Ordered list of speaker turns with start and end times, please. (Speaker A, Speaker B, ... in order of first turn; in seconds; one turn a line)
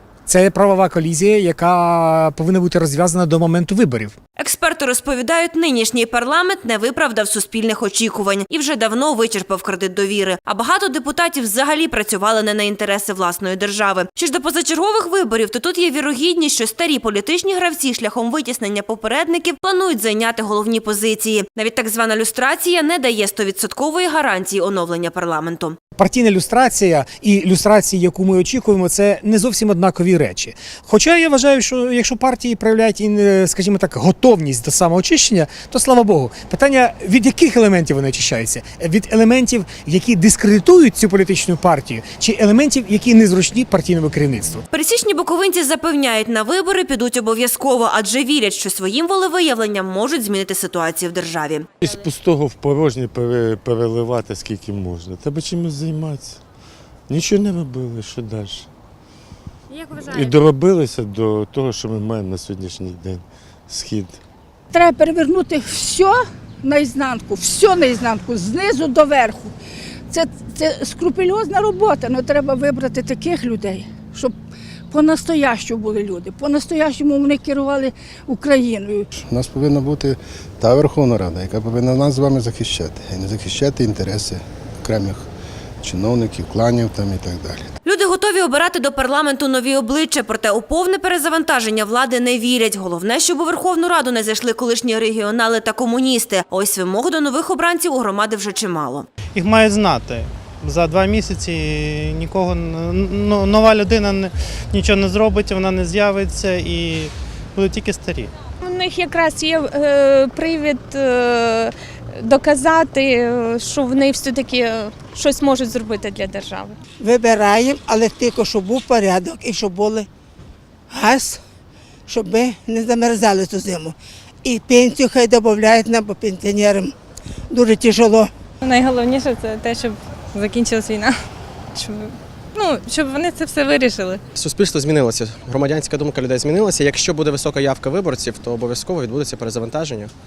Speaker A: 0.3-4.2
Speaker B: 4.4-25.8
Speaker A: 26.0-44.6
Speaker B: 44.7-51.7
Speaker C: 51.8-56.4
Speaker C: 57.1-58.7
Speaker C: 59.9-64.2
Speaker D: 64.7-69.5
Speaker D: 70.1-74.3
Speaker D: 74.9-79.1
Speaker E: 79.2-85.3
Speaker E: 85.8-87.7
Speaker B: 87.8-99.1
Speaker F: 99.4-108.3
Speaker G: 108.6-116.8
Speaker H: 117.0-120.1
Speaker H: 120.9-121.4
Speaker H: 122.1-127.0
Speaker H: 127.5-128.3
Speaker I: 128.6-131.2
Speaker I: 131.7-134.2
Speaker J: 134.3-140.1